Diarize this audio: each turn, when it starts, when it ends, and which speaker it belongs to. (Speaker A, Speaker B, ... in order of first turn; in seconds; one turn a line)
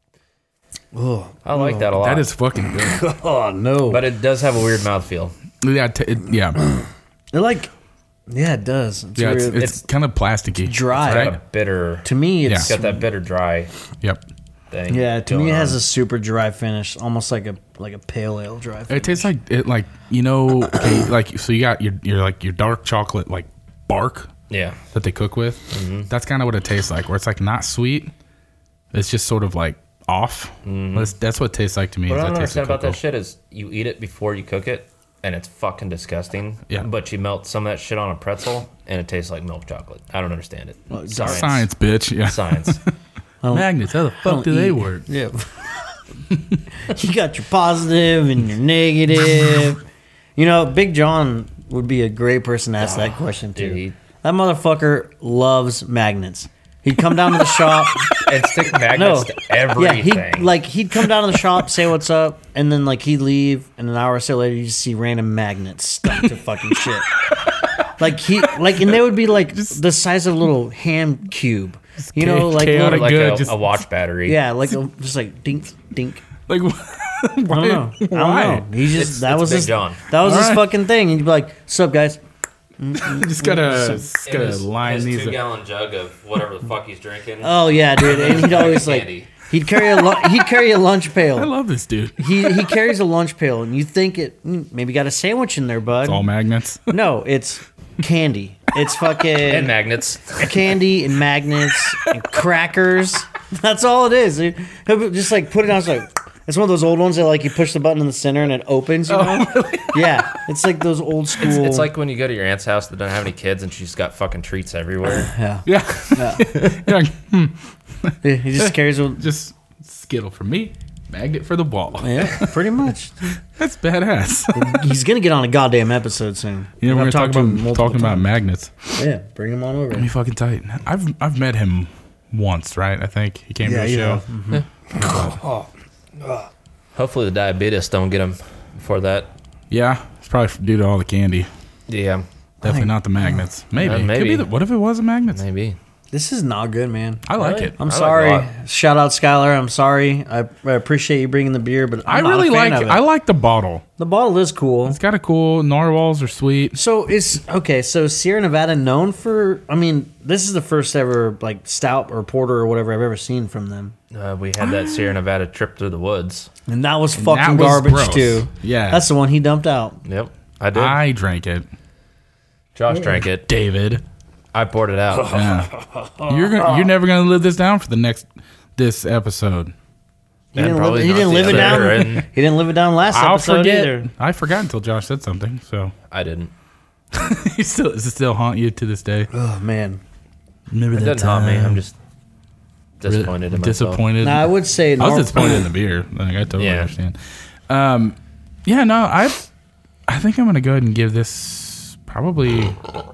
Speaker A: 0.9-1.9
Speaker B: 1.4-2.3
Speaker C: 2.0-3.0
Speaker A: 2.8-4.0
Speaker B: 3.9-5.3
Speaker C: 5.6-6.6
Speaker A: 6.6-7.7
Speaker A: 8.3-9.7
Speaker C: 9.2-11.4
Speaker B: 9.6-9.8
Speaker A: 10.6-11.3
Speaker B: 11.0-12.1
Speaker A: 12.0-13.0
Speaker C: 12.4-12.7
Speaker B: 12.6-13.7
Speaker B: 14.7-15.8
Speaker A: 14.9-19.3
Speaker C: 18.9-24.3
Speaker B: 24.5-24.8
Speaker C: 24.9-28.1
Speaker B: 25.7-26.1
Speaker C: 28.9-33.0
Speaker B: 30.6-31.1
Speaker B: 32.1-41.7
Speaker A: 40.9-41.5
Speaker C: 41.2-42.9
Speaker B: 42.2-42.8
Speaker A: 43.4-45.7
Speaker C: 43.5-45.1
Speaker C: 46.3-46.6
Speaker A: 46.7-49.8
Speaker A: 50.4-58.2
Speaker B: 52.8-54.0
Speaker B: 58.1-60.5
Speaker A: 58.9-67.1
Speaker C: 67.3-67.7
Speaker A: 68.0-73.2
Speaker C: 68.4-69.8
Speaker C: 72.0-73.7
Speaker B: 72.6-74.4
Speaker A: 74.3-76.2
Speaker C: 76.5-78.7
Speaker A: 77.5-82.2
Speaker B: 79.0-80.0
Speaker C: 80.2-80.8
Speaker A: 82.8-84.1
Speaker C: 82.9-85.4
Speaker B: 84.2-89.3
Speaker A: 87.4-91.5
Speaker C: 91.3-92.8
Speaker A: 92.2-96.2
Speaker C: 96.0-96.9
Speaker A: 96.9-99.8
Speaker B: 99.4-100.6
Speaker A: 100.4-111.9
Speaker C: 109.1-110.3
Speaker B: 111.4-115.3
Speaker A: 115.3-116.5
Speaker C: 115.7-122.5
Speaker A: 118.2-119.2
Speaker A: 122.0-123.3
Speaker C: 123.5-124.9
Speaker A: 124.5-128.3
Speaker C: 126.8-129.0
Speaker A: 129.0-130.1
Speaker C: 129.9-134.2
Speaker A: 133.6-135.7
Speaker C: 135.0-135.4
Speaker B: 136.9-139.3
Speaker C: 139.7-141.5
Speaker B: 141.9-142.2
Speaker A: 142.6-143.3
Speaker C: 142.6-145.4
Speaker B: 143.8-144.5
Speaker B: 145.3-145.8
Speaker A: 146.1-147.2
Speaker C: 147.3-147.8
Speaker B: 147.4-148.5
Speaker A: 147.8-153.0
Speaker C: 152.1-153.8
Speaker A: 154.0-155.0
Speaker C: 154.9-156.8
Speaker A: 156.7-163.9
Speaker B: 164.1-166.5
Speaker C: 164.6-165.2
Speaker A: 166.7-170.0
Speaker C: 167.2-169.1
Speaker B: 170.1-171.0
Speaker C: 170.7-171.7
Speaker B: 172.8-173.5
Speaker C: 173.5-174.0
Speaker B: 174.5-175.5
Speaker C: 175.3-179.7
Speaker A: 175.5-176.8
Speaker A: 180.5-184.1
Speaker B: 180.6-182.3
Speaker C: 181.5-182.1
Speaker C: 183.1-185.9
Speaker B: 186.1-186.5
Speaker C: 187.1-189.3
Speaker A: 189.3-190.0
Speaker C: 190.7-191.8
Speaker B: 190.9-191.9
Speaker B: 193.0-194.0
Speaker C: 193.1-199.5
Speaker A: 194.2-195.7
Speaker B: 196.6-196.9
Speaker C: 200.1-202.8